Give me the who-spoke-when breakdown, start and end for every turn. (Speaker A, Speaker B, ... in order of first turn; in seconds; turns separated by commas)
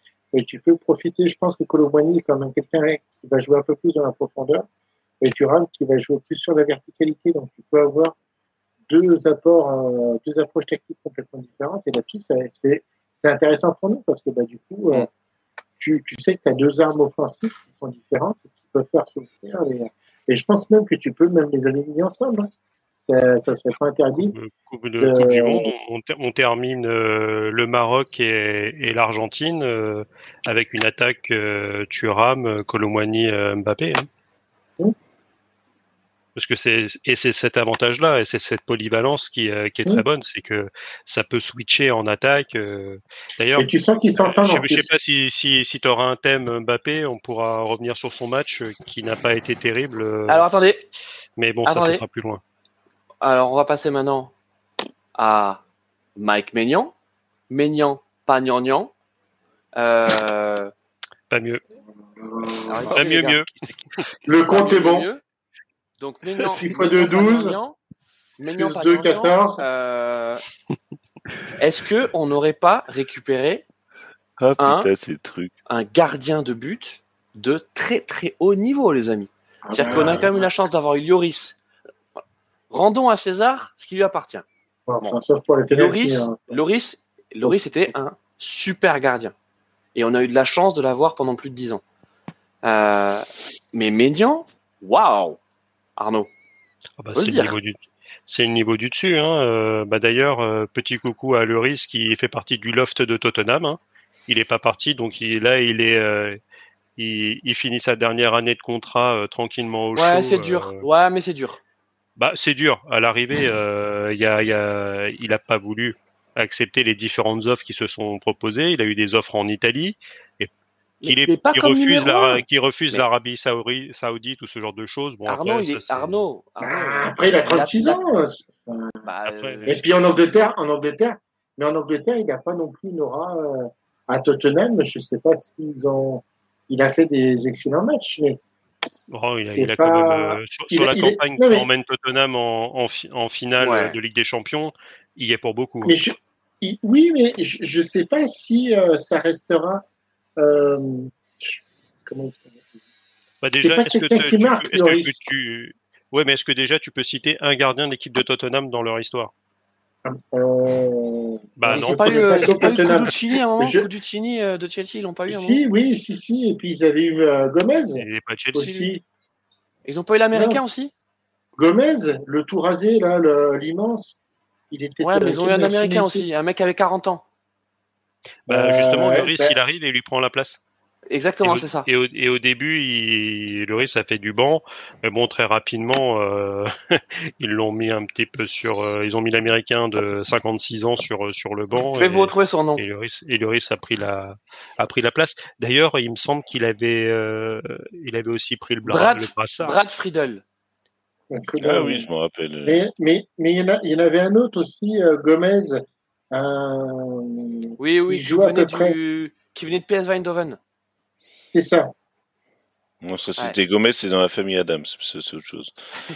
Speaker A: 0.3-4.7, Speaker A: 5.2-8.2, Speaker A: 8.9-15.1, Speaker A: 15.8-22.5, Speaker A: 23.1-24.4, Speaker B: 24.3-34.1, Speaker A: 25.0-25.7, Speaker B: 36.4-50.5, Speaker A: 43.6-44.9, Speaker C: 50.3-50.9, Speaker B: 51.4-52.4, Speaker C: 51.6-52.0, Speaker C: 53.2-54.3, Speaker C: 55.1-55.6, Speaker C: 56.2-56.9, Speaker C: 57.5-58.9, Speaker C: 59.8-60.7, Speaker B: 61.3-61.6, Speaker A: 62.2-63.0, Speaker C: 62.6-63.4, Speaker B: 62.9-63.5, Speaker A: 64.2-65.1, Speaker C: 64.5-65.2, Speaker C: 66.0-67.8, Speaker A: 66.5-67.6, Speaker C: 68.4-70.4, Speaker A: 68.5-69.6, Speaker C: 71.6-73.6, Speaker D: 74.4-75.5, Speaker C: 74.6-74.9, Speaker C: 75.7-81.6, Speaker A: 79.7-80.4, Speaker C: 82.7-84.5, Speaker A: 84.9-86.5, Speaker C: 85.0-89.3, Speaker C: 90.0-91.8, Speaker C: 92.6-95.4, Speaker C: 96.0-96.3, Speaker B: 97.0-106.4, Speaker C: 97.2-97.6, Speaker B: 107.0-110.8, Speaker C: 110.0-111.6, Speaker B: 112.2-120.5, Speaker C: 121.0-123.0, Speaker B: 121.0-126.2, Speaker C: 125.3-128.0, Speaker A: 126.6-129.0, Speaker C: 129.0-130.5, Speaker B: 129.3-129.8, Speaker A: 129.7-139.0, Speaker B: 139.1-146.0, Speaker A: 139.5-141.7, Speaker C: 143.6-144.0, Speaker A: 145.8-149.8, Speaker A: 150.4-152.8, Speaker B: 153.4-159.3, Speaker A: 153.6-155.2, Speaker A: 160.0-163.9, Speaker B: 161.6-163.1, Speaker C: 161.7-165.6, Speaker A: 165.3-169.0, Speaker B: 168.0-168.9, Speaker C: 169.8-170.9, Speaker A: 170.3-170.6, Speaker A: 171.6-174.2, Speaker A: 174.7-176.3, Speaker C: 175.0-177.2, Speaker B: 178.5-180.6, Speaker A: 178.5-179.6, Speaker C: 181.1-181.9, Speaker B: 181.4-199.8, Speaker C: 192.0-192.8, Speaker C: 198.8-200.4, Speaker A: 201.3-202.1, Speaker D: 201.6-202.8, Speaker A: 202.7-209.0, Speaker C: 207.8-210.6, Speaker A: 211.5-211.9, Speaker D: 213.0-215.7